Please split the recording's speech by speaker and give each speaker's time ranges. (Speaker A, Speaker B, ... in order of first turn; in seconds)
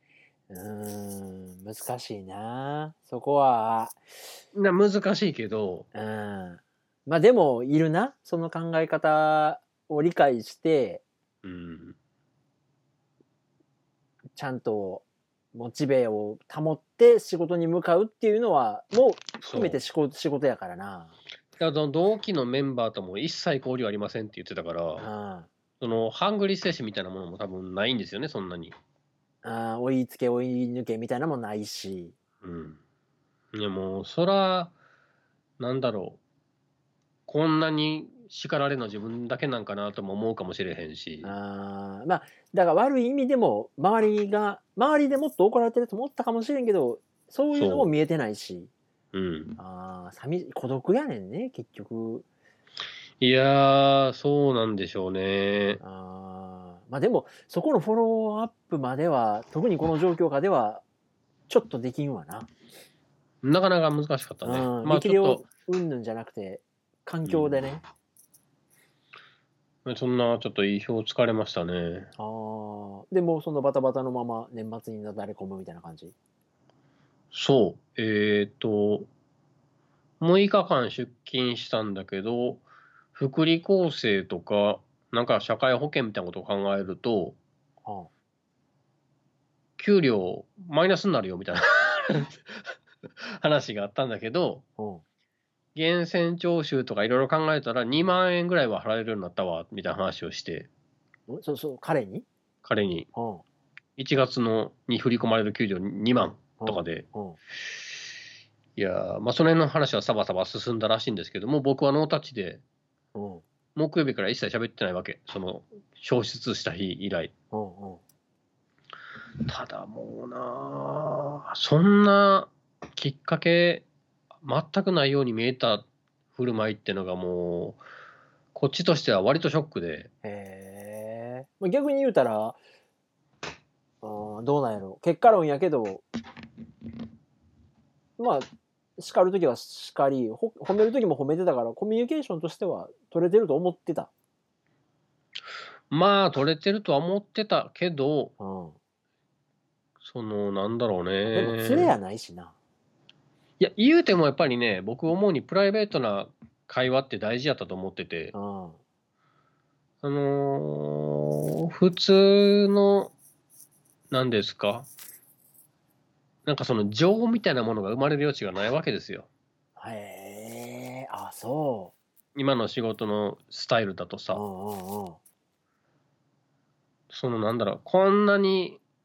Speaker A: 0.5-4.0, 5.9-11.0, 14.4-21.1, 25.0-25.5, 29.4-32.1, 41.2-48.7, 49.6-52.2, 55.8-60.8, 61.5-62.5, 64.4-67.8, 72.2-76.1, 87.8-88.1, 94.8-95.0, 101.3-102.3, 103.2-103.4, 106.6-107.4, 113.2-113.4, 117.5-118.0, 130.2-132.6, 134.0-136.0, 138.2-144.1, 148.4-148.8, 151.3-152.5, 158.3-158.8, 169.8-171.9, 174.3-175.2
Speaker B: 4.5-5.9, 11.4-12.0, 19.4-19.8, 21.6-25.1, 25.8-28.8, 32.4-32.8, 33.5-34.7, 35.6-36.2, 37.3-41.3, 47.5-47.9, 49.1-49.6, 53.2-55.8, 63.4-65.4, 67.3-67.6, 69.8-72.1, 77.3-79.1, 80.2-87.4, 89.8-94.6, 95.8-100.7, 102.6-103.1, 104.0-107.0, 108.8-112.6, 113.8-117.3, 119.5-123.8, 124.4-127.8, 128.6-130.1, 145.9-148.3, 150.0-151.9, 153.6-158.3, 160.0-163.1, 164.1-164.9, 166.5-169.3, 172.3-174.4, 177.1-178.8